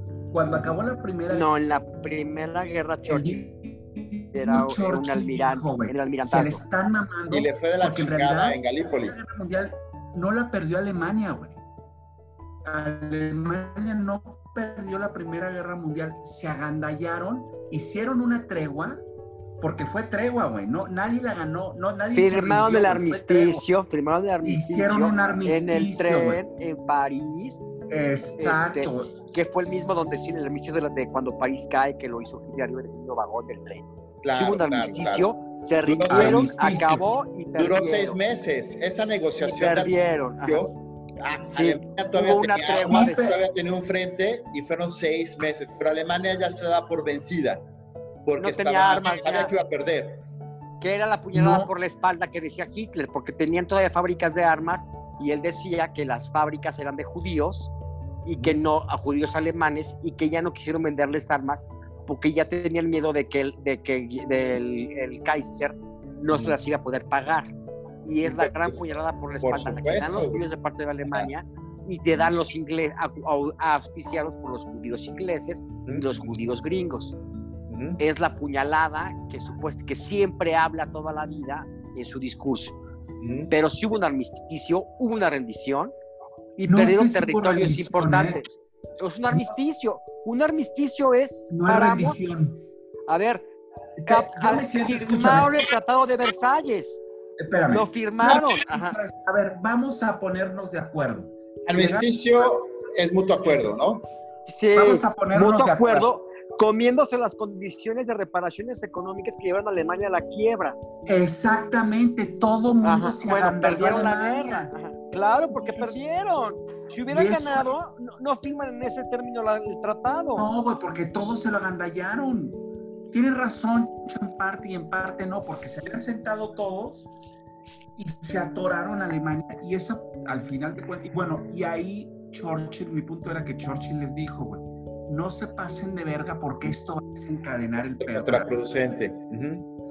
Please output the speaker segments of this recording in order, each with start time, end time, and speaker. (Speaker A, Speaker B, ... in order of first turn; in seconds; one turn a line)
Speaker A: 0.3-1.5
Speaker B: 1.3-3.5
Speaker A: 3.1-11.6
Speaker B: 4.3-6.6
Speaker C: 7.3-9.2
Speaker A: 12.6-19.0
Speaker A: 19.6-23.6
Speaker B: 22.1-27.6
Speaker A: 24.4-26.4
Speaker A: 27.9-29.1
Speaker B: 28.4-38.2
Speaker C: 34.2-35.3
Speaker C: 35.9-36.5
Speaker A: 36.1-37.1
Speaker C: 37.6-47.6
Speaker B: 39.4-40.6
Speaker B: 41.5-43.4
Speaker A: 42.8-43.4
Speaker C: 48.3-50.2
Speaker B: 48.4-49.5
Speaker B: 50.8-57.7
Speaker A: 51.3-51.7
Speaker B: 58.2-67.5
Speaker B: 68.0-77.2
Speaker C: 68.2-68.8
Speaker C: 69.4-70.5
Speaker C: 77.7-78.0
Speaker B: 78.0-82.8
Speaker C: 83.2-83.5
Speaker B: 83.5-85.9
Speaker B: 86.6-92.2
Speaker A: 86.7-88.4
Speaker A: 91.5-92.6
Speaker B: 93.1-93.5
Speaker A: 94.0-95.6
Speaker B: 94.1-97.0
Speaker A: 97.4-102.1
Speaker B: 97.7-99.0
Speaker C: 101.7-104.1
Speaker B: 104.5-110.8
Speaker A: 104.8-106.1
Speaker A: 111.1-114.7
Speaker B: 112.8-120.5
Speaker A: 117.1-117.7
Speaker A: 120.4-122.6
Speaker A: 123.1-127.1
Speaker A: 128.0-138.6
Speaker C: 138.0-139.7